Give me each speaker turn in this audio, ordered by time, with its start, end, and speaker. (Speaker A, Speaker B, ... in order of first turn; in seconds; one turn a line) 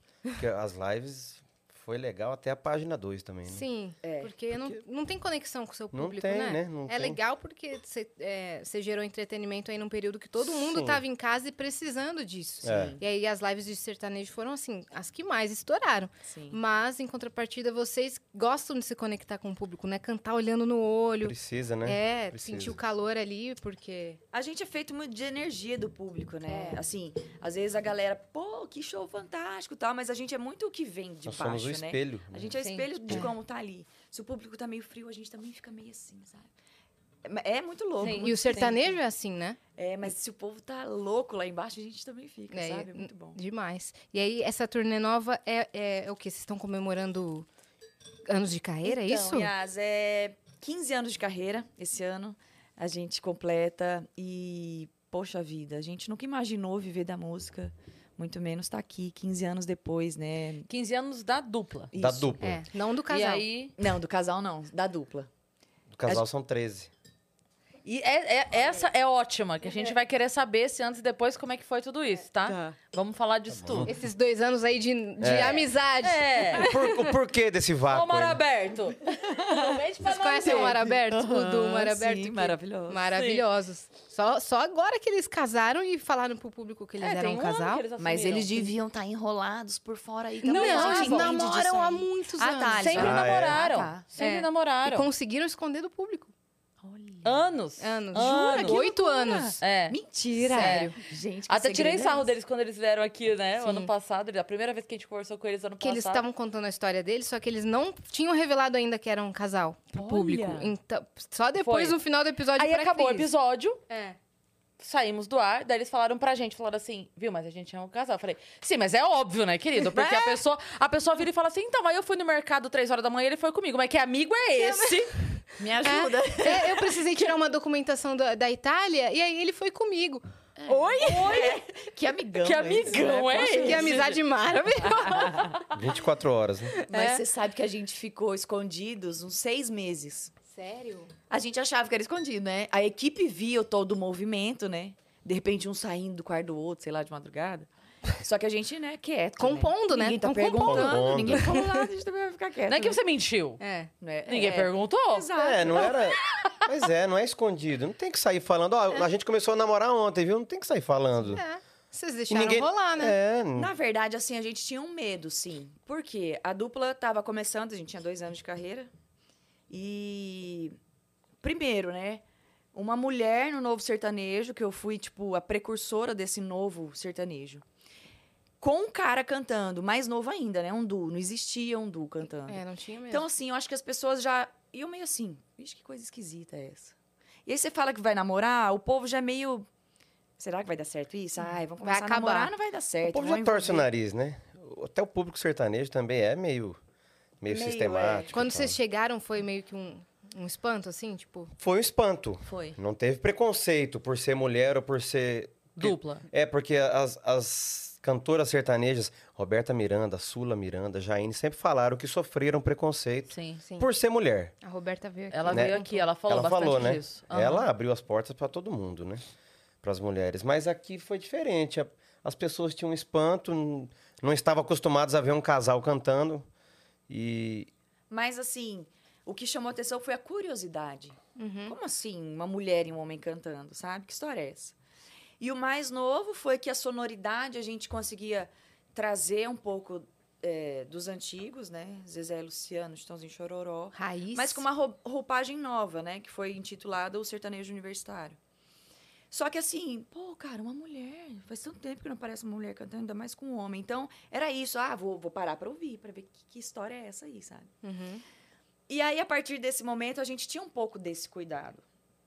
Speaker A: 0.3-3.6
Speaker B: 3.5-21.3
Speaker C: 4.0-4.3
Speaker A: 5.9-7.2
Speaker A: 10.4-11.0
Speaker A: 12.6-13.0
Speaker C: 12.6-13.0
Speaker C: 16.2-16.6
Speaker A: 21.2-22.8
Speaker B: 21.8-24.2
Speaker C: 24.3-36.5
Speaker B: 26.5-26.7
Speaker A: 31.2-32.5
Speaker D: 32.6-33.3
Speaker C: 37.2-39.0
Speaker D: 38.0-38.3
Speaker B: 38.1-39.6
Speaker C: 39.7-43.4
Speaker B: 42.5-47.5
Speaker B: 48.2-49.5
Speaker C: 48.8-60.7
Speaker D: 60.7-61.9
Speaker C: 61.9-62.4
Speaker A: 61.9-62.6
Speaker B: 62.4-63.4
Speaker D: 63.1-63.7
Speaker C: 63.8-65.3
Speaker A: 65.9-66.9
Speaker D: 67.8-73.9
Speaker C: 72.5-72.8
Speaker A: 73.5-73.9
Speaker B: 73.8-77.1
Speaker A: 75.2-75.7
Speaker D: 76.0-76.7
Speaker A: 76.5-78.4
Speaker D: 77.9-80.8
Speaker C: 79.2-79.8
Speaker B: 80.0-87.8
Speaker C: 80.4-83.1
Speaker D: 83.1-83.4
Speaker D: 87.0-88.7
Speaker C: 88.0-94.0
Speaker B: 90.4-93.2
Speaker D: 90.5-91.4
Speaker D: 92.8-95.1
Speaker A: 93.0-93.6
Speaker B: 94.2-96.3
Speaker C: 96.8-97.5
Speaker D: 97.2-98.8
Speaker B: 97.8-99.6
Speaker C: 98.1-102.3
Speaker D: 99.6-100.0
Speaker B: 100.4-100.9
Speaker D: 100.5-101.0
Speaker D: 101.5-106.2
Speaker B: 103.6-103.9
Speaker B: 105.8-113.3
Speaker C: 109.9-110.7
Speaker D: 111.6-112.0
Speaker D: 112.5-113.8
Speaker B: 113.9-114.2
Speaker D: 114.8-125.2
Speaker C: 119.8-120.4
Speaker B: 124.5-131.4
Speaker C: 125.6-127.3
Speaker C: 130.6-133.9
Speaker D: 131.0-131.6
Speaker D: 132.4-134.2
Speaker B: 133.6-135.6
Speaker C: 135.0-135.4
Speaker A: 135.7-136.7
Speaker B: 136.8-137.2
Speaker C: 136.8-140.3
Speaker B: 140.5-141.1
Speaker C: 141.3-153.0
Speaker B: 149.4-151.9
Speaker A: 150.6-151.6
Speaker D: 152.7-153.6
Speaker B: 153.6-153.9
Speaker C: 154.0-155.9
Speaker D: 154.2-155.3
Speaker A: 155.3-161.4
Speaker B: 161.2-163.2
Speaker A: 162.3-163.7
Speaker C: 163.6-168.9
Speaker C: 169.7-170.8
Speaker C: 171.4-172.2
Speaker C: 172.7-177.6
Speaker C: 178.6-186.9
Speaker B: 182.5-183.3
Speaker C: 187.4-189.7
Speaker C: 190.4-193.8
Speaker B: 191.8-192.5
Speaker A: 193.0-196.8
Speaker A: 197.4-198.8
Speaker C: 197.5-198.4
Speaker B: 198.3-201.5
Speaker A: 201.6-214.5
Speaker C: 202.4-202.8
Speaker D: 205.8-206.2
Speaker D: 213.3-213.6
Speaker B: 214.6-216.0
Speaker D: 215.3-217.7
Speaker A: 215.5-215.8
Speaker A: 216.3-219.2
Speaker A: 219.8-226.4
Speaker A: 227.1-227.7
Speaker C: 228.1-234.7
Speaker B: 231.3-231.7
Speaker C: 235.4-248.4
Speaker B: 243.9-244.6
Speaker C: 249.3-257.7
Speaker B: 257.8-258.2
Speaker C: 258.9-261.8